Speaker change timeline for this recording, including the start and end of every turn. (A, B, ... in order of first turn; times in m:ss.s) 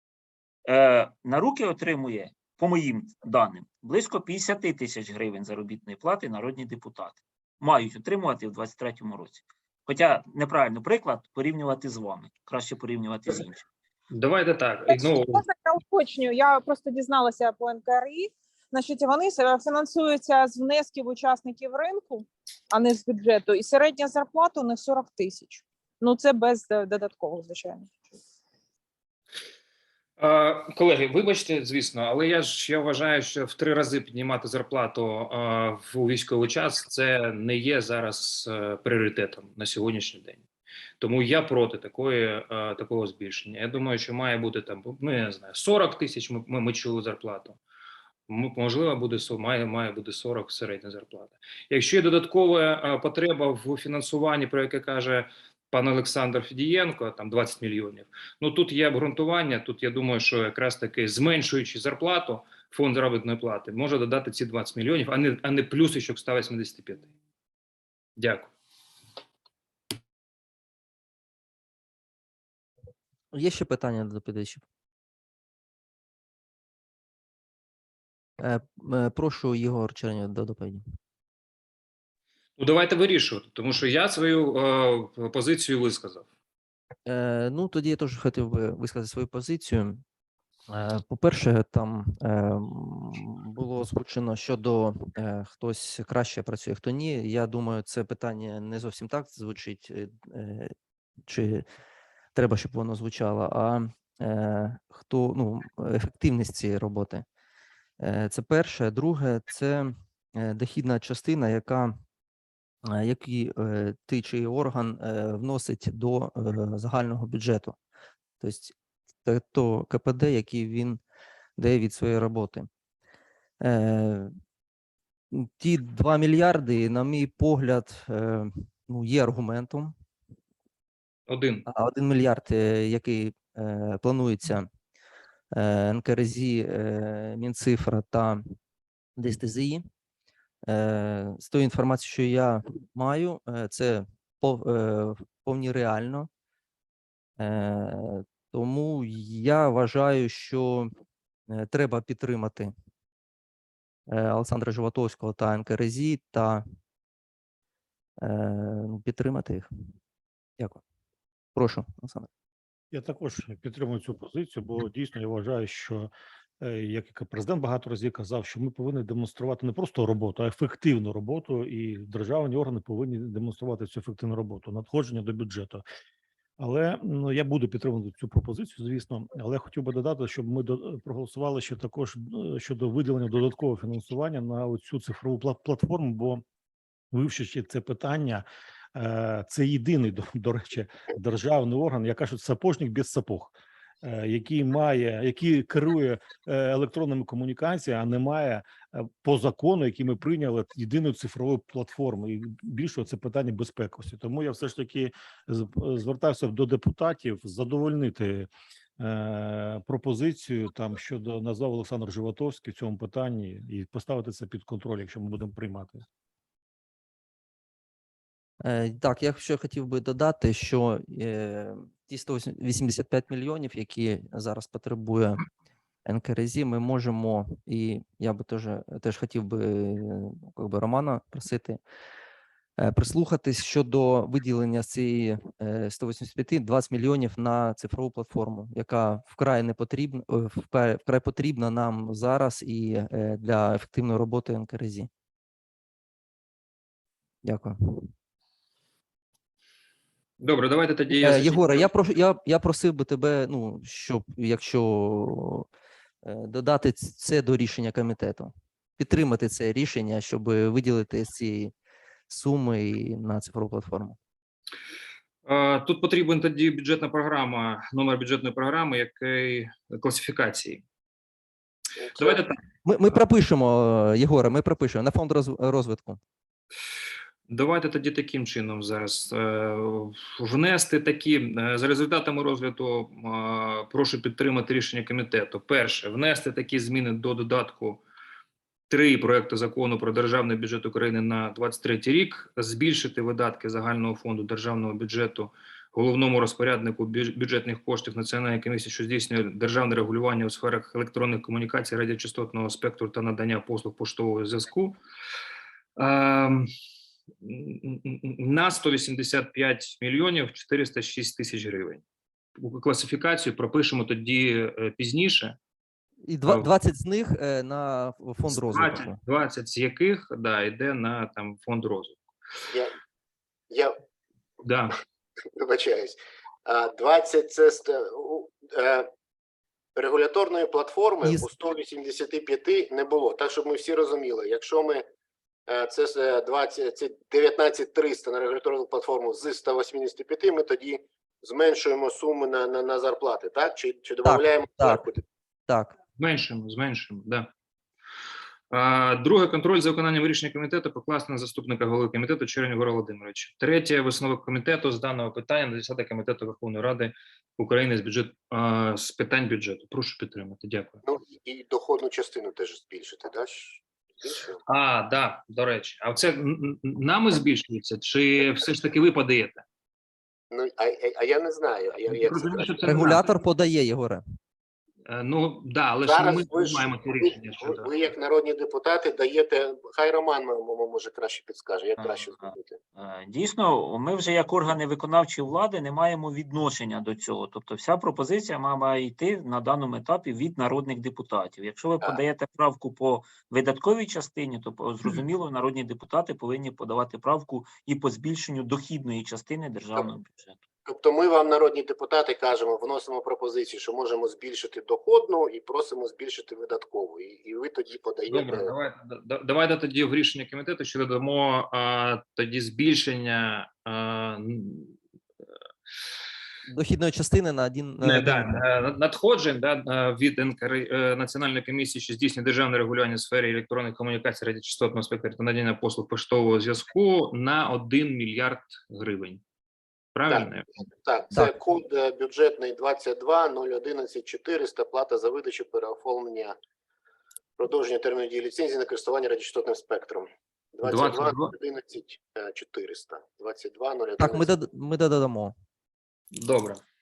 0:00.7-0:13.6 A
0:14.1-0:15.4 B
0:14.9-0:27.9 C
0:30.2-0:40.4 B
0:41.0-0:47.6 B
0:48.3-1:07.1 B
1:08.2-1:08.5 B
1:13.3-1:14.6 D
1:18.4-1:20.8 D
1:22.6-1:26.3 B
1:27.1-1:30.0 D
1:30.7-1:40.7 D
1:41.2-1:41.6 D
1:42.4-1:47.2 D
1:48.0-1:52.0 D
1:52.8-1:57.8 D
1:58.4-2:01.0 D
2:01.6-2:02.7 D
2:03.6-2:04.4 D
2:05.3-2:10.0 D
2:11.3-2:11.7 B
2:11.7-2:14.7 D
2:15.5-2:18.6 D
2:19.2-2:19.9 D
2:20.7-2:26.3 D
2:27.4-2:30.9 D
2:31.5-2:32.7 D
2:34.1-2:36.6 D
2:38.2-2:39.7 D
2:41.6-2:42.3 D
2:42.9-2:55.8 E
2:56.6-3:06.4 E
3:07.1-3:36.0 E
3:38.6-3:45.4 D
3:46.0-3:51.8 D
3:52.8-4:05.1 D
4:07.4-4:08.1 D
4:10.4-4:11.9 B
4:11.1-4:15.7 D
4:16.2-4:21.7 D
4:22.3-4:24.2 D
4:25.4-4:30.8 B
4:32.0-4:32.4 F
4:32.2-4:32.6 B
4:32.8-4:36.2 D
4:37.5-4:48.0 B
4:48.9-5:05.0 B
5:06.0-5:06.7 B
5:07.4-5:12.0 B
5:12.6-5:15.6 B
5:16.2-5:19.2 D
5:18.5-5:22.2 B
5:22.7-5:23.0 F
5:23.7-5:24.0 F
5:24.6-5:25.0 B
5:25.5-5:29.1 F
5:30.0-5:35.0 F
5:31.2-5:31.5 D
5:35.7-5:45.2 F
5:44.2-5:45.1 D
5:45.7-5:46.0 D
5:46.2-5:47.5 B
5:48.7-6:01.0 B
6:01.0-6:04.6 F
6:04.7-6:09.6 B
6:10.5-6:12.8 F
6:12.1-6:13.3 B
6:12.8-6:14.2 D
6:15.1-6:17.9 B
6:16.0-6:22.8 F
6:23.0-6:40.6 A
6:40.9-6:48.7 F
6:48.3-6:55.0 B
6:56.7-6:58.6 D
6:58.0-7:09.4 B
7:10.2-7:10.7 B
7:10.3-7:16.6 F
7:17.6-7:24.6 F
7:20.8-7:21.5 B
7:24.2-7:25.6 D
7:26.4-7:26.8 B